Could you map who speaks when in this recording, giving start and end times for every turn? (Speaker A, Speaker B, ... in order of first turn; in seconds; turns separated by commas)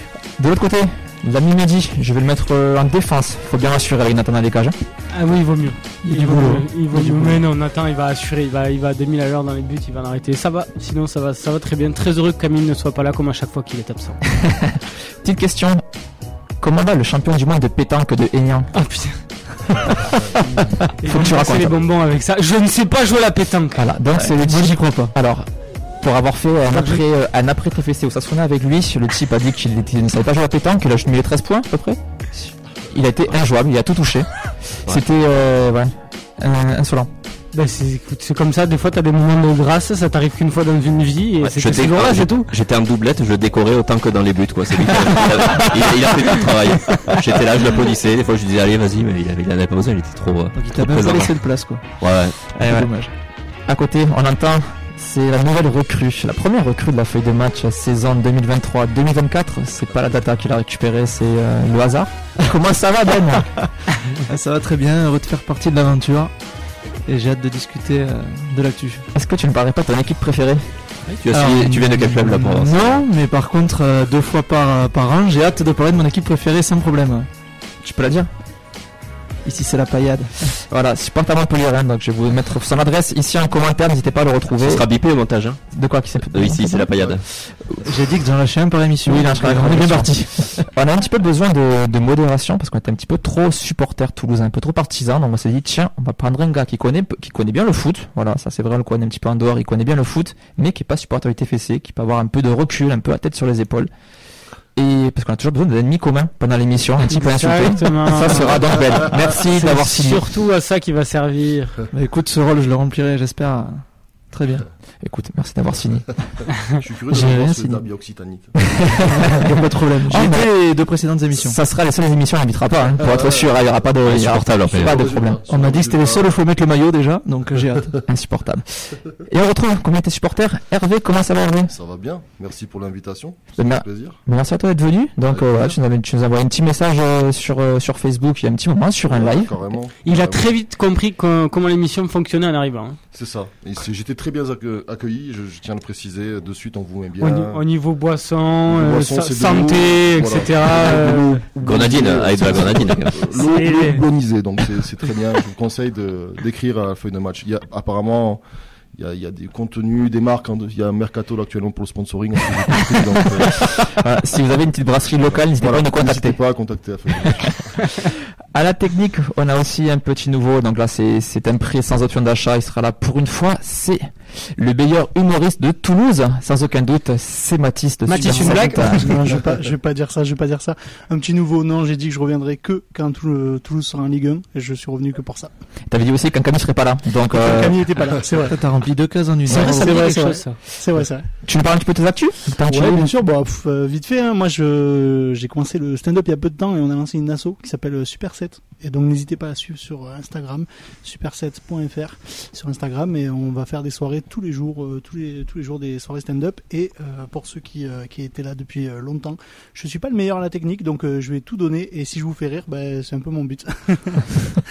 Speaker A: 0.3-4.8, Speaker B: 5.1-14.2, Speaker A: 6.0-7.4, Speaker A: 14.4-15.8, Speaker A: 16.6-18.8, Speaker B: 18.8-19.1, Speaker A: 19.8-20.4, Speaker B: 21.0-23.9, Speaker A: 21.0-21.8, Speaker A: 23.7-32.0, Speaker C: 24.2-25.1, Speaker B: 26.7-27.0, Speaker A: 32.8-37.1, Speaker B: 37.5-42.5, Speaker D: 41.4-52.4, Speaker C: 50.5-53.1, Speaker A: 52.6-52.9, Speaker A: 53.6-63.7, Speaker C: 64.2-69.0, Speaker A: 69.1-70.7, Speaker D: 71.1-73.0, Speaker C: 71.3-77.3, Speaker A: 77.8-78.3, Speaker C: 79.4-80.6, Speaker A: 80.7-84.9, Speaker D: 84.5-85.6, Speaker A: 85.7-86.9, Speaker D: 86.3-87.3, Speaker C: 86.6-90.2, Speaker A: 89.0-103.9, Speaker A: 104.7-110.2, Speaker B: 107.1-111.8, Speaker C: 111.9-114.7, Speaker A: 115.0-116.5, Speaker E: 116.7-119.4, Speaker A: 117.1-117.8, Speaker C: 119.3-121.6, Speaker A: 120.0-125.4, Speaker E: 123.0-123.5, Speaker D: 124.0-125.0, Speaker E: 124.7-126.4, Speaker C: 125.4-128.0, Speaker A: 128.1-131.7, Speaker E: 131.7-134.2, Speaker A: 133.6-139.5, Speaker E: 135.3-135.8, Speaker E: 139.0-140.5, Speaker B: 140.0-143.0, Speaker E: 143.1-147.6, Speaker B: 147.2-151.5, Speaker E: 148.7-163.9, Speaker D: 151.6-153.3, Speaker B: 153.1-154.0, Speaker A: 163.9-166.4, Speaker E: 165.2-167.9, Speaker A: 168.5-179.1, Speaker F: 178.1-185.7, Speaker A: 185.9-187.9, Speaker F: 187.3-188.7, Speaker C: 188.4-190.2, Speaker B: 189.5-190.6, Speaker A: 189.6-190.4, Speaker F: 189.6-191.3, Speaker A: 191.0-193.1, Speaker F: 192.6-214.6